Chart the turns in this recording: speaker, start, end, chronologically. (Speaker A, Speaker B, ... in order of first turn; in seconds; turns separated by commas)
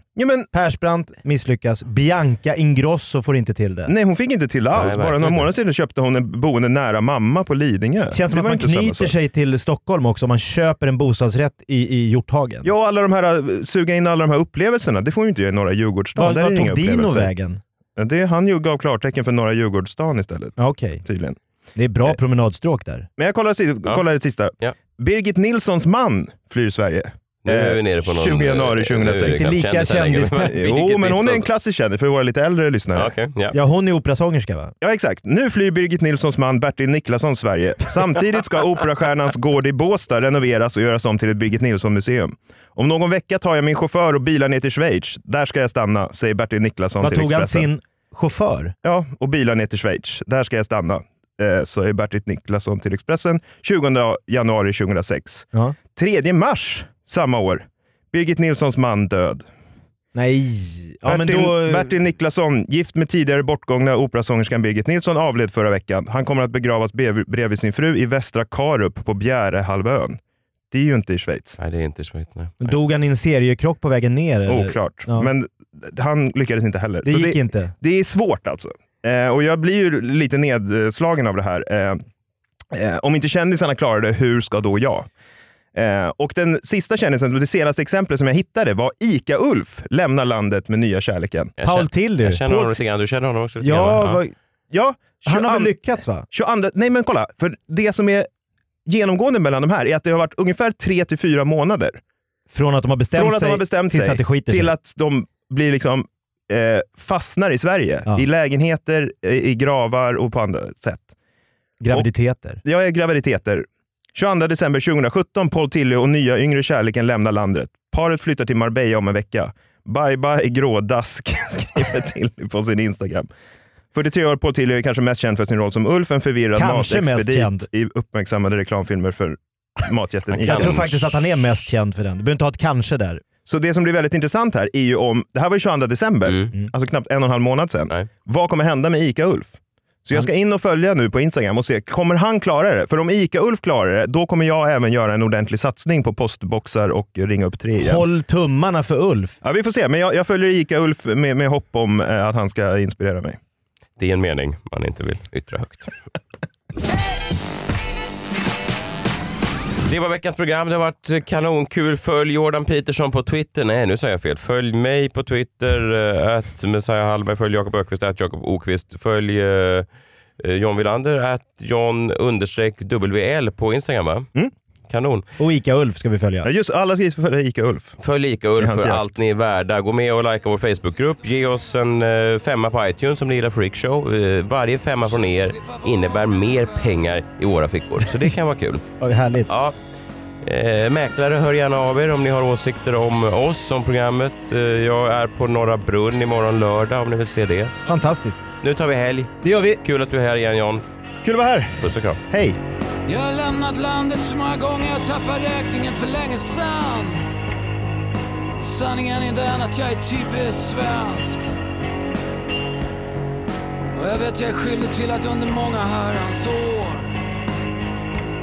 Speaker A: 0.2-0.5, Speaker B: 0.5-3.9, Speaker A: 3.9-9.1, Speaker C: 4.7-5.5, Speaker B: 8.1-12.7, Speaker A: 12.6-17.3, Speaker B: 16.2-17.6, Speaker A: 18.0-21.4, Speaker B: 20.6-21.0, Speaker B: 21.8-23.1, Speaker A: 23.2-29.5, Speaker C: 27.4-31.5, Speaker B: 29.1-30.6, Speaker A: 30.4-33.1, Speaker C: 33.0-33.6, Speaker B: 33.5-34.7, Speaker A: 34.8-47.7, Speaker B: 47.0-48.7, Speaker A: 48.8-59.5, Speaker B: 60.1-62.0, Speaker A: 61.0-70.2, Speaker A: 70.7-71.6, Speaker C: 71.6-72.8, Speaker B: 72.6-75.3, Speaker A: 74.5-82.0, Speaker B: 77.0-77.7, Speaker A: 82.7-85.1, Speaker A: 85.7-91.5, Speaker C: 91.6-94.2, Speaker B: 91.6-92.8, Speaker B: 93.6-94.3, Speaker A: 94.7-95.8, Speaker B: 95.2-96.3, Speaker A: 96.3-98.3, Speaker A: 98.9-102.0, Speaker B: 102.5-104.7, Speaker A: 103.1-111.1, Speaker B: 111.8-112.6, Speaker A: 112.6-123.3, Speaker A: 123.9-131.1, Speaker B: 126.5-127.7, Speaker C: 130.3-130.8, Speaker B: 130.4-133.2, Speaker A: 133.4-148.0, Speaker C: 136.3-136.5, Speaker B: 147.8-149.4, Speaker A: 149.4-153.4, Speaker C: 154.0-155.9, Speaker C: 159.9-169.9, Speaker C: 170.4-174.3, Speaker C: 174.9-175.2, Speaker B: 175.4-176.5, Speaker A: 176.4-178.0, Speaker C: 178.0-188.8, Speaker A: 178.6-179.0, Speaker D: 185.1-187.0, Speaker B: 189.0-189.5, Speaker C: 189.5-189.7, Speaker C: 190.4-197.7, Speaker B: 197.9-198.4, Speaker C: 198.6-200.8, Speaker B: 199.4-199.8, Speaker A: 201.2-202.6, Speaker C: 201.8-202.2, Speaker D: 203.1-207.2, Speaker D: 208.6-211.5, Speaker D: 213.9-217.2